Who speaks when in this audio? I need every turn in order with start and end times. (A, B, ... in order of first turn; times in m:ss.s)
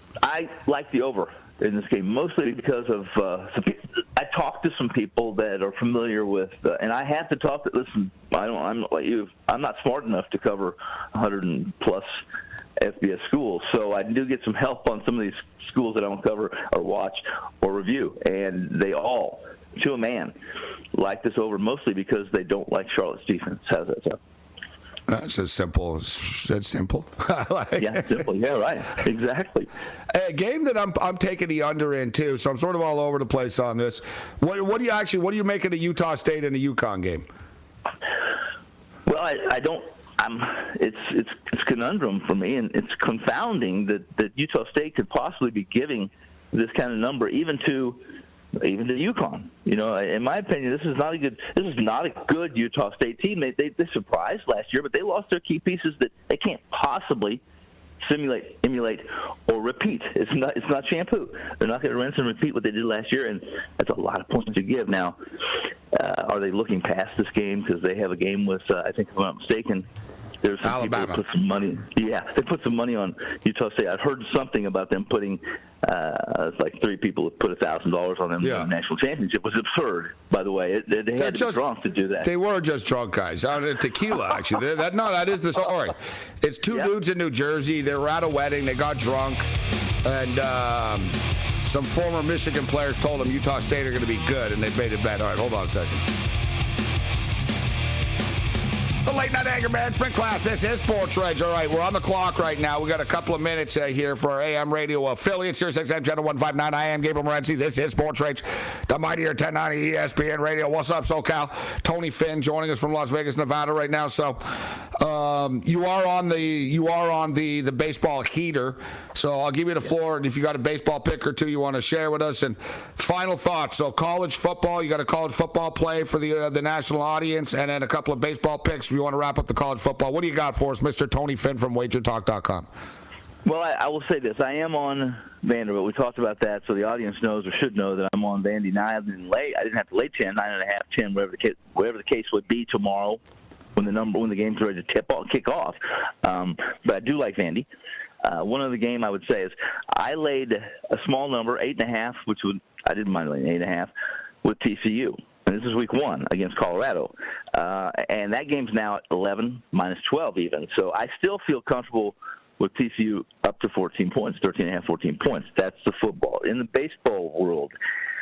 0:00.2-0:12.1 A
0:12.8-0:20.4 A
0:20.9-0:24.2 A
0:25.1-0:28.2 B
0:27.8-0:29.7 A
0:30.1-0:37.3 B
0:39.1-0:48.0 A
0:48.6-0:57.4 A
0:58.0-1:05.2 A
1:05.9-1:09.9 A
1:10.4-1:22.3 A
1:10.6-1:11.2 B
1:18.4-1:18.7 B
1:21.2-1:21.6 B
1:22.2-1:29.5 B
1:26.7-1:26.9 A
1:30.0-1:36.0 B
1:39.0-2:12.7 B
2:13.4-2:23.2 A
2:23.8-2:27.7 A
2:28.2-2:33.9 A
2:34.4-2:47.7 A